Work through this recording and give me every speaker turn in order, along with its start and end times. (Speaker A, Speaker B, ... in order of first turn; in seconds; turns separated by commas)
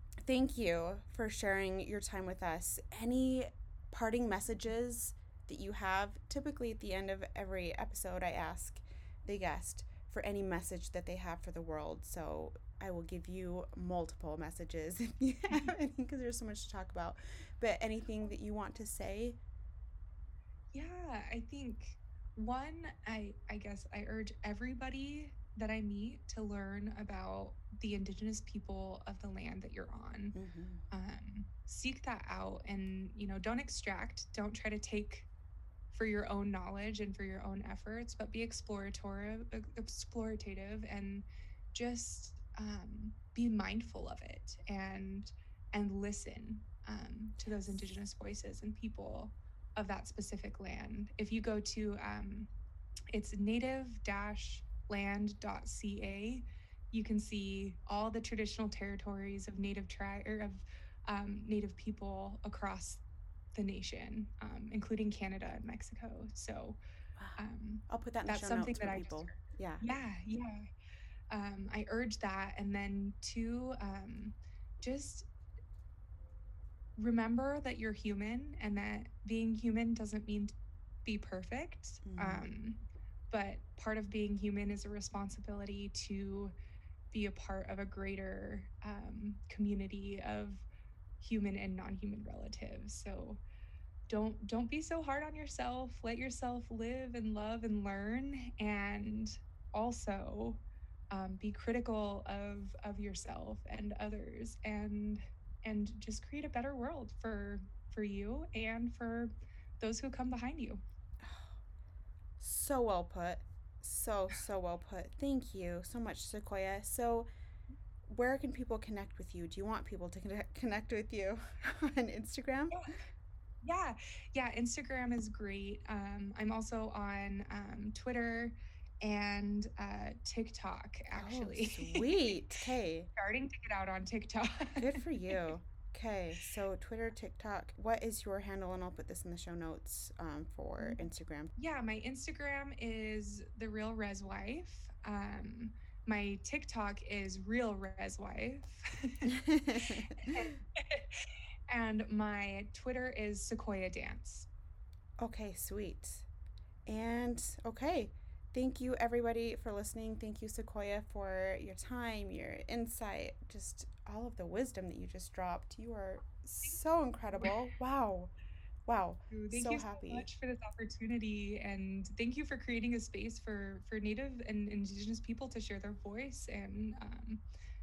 Speaker A: 0.2-19.4, Speaker B: 20.7-30.3, Speaker A: 30.3-30.8, Speaker B: 30.9-35.3, Speaker B: 35.9-52.5, Speaker A: 47.4-47.9, Speaker B: 53.1-63.0, Speaker B: 63.5-66.8, Speaker A: 67.2-69.8, Speaker B: 67.4-70.7, Speaker B: 71.3-75.3, Speaker B: 77.0-80.5, Speaker B: 81.0-86.5, Speaker A: 82.0-82.5, Speaker B: 87.1-90.6, Speaker B: 91.2-93.4, Speaker B: 94.1-110.8, Speaker A: 111.2-111.5, Speaker A: 112.4-117.3, Speaker A: 118.1-122.8, Speaker B: 123.6-132.3, Speaker A: 131.1-133.1, Speaker B: 133.2-135.3, Speaker A: 134.8-141.5, Speaker B: 141.6-149.3, Speaker A: 149.2-150.5, Speaker B: 150.2-154.5, Speaker A: 155.2-156.2, Speaker A: 156.9-168.3, Speaker A: 168.9-170.3, Speaker B: 169.3-177.4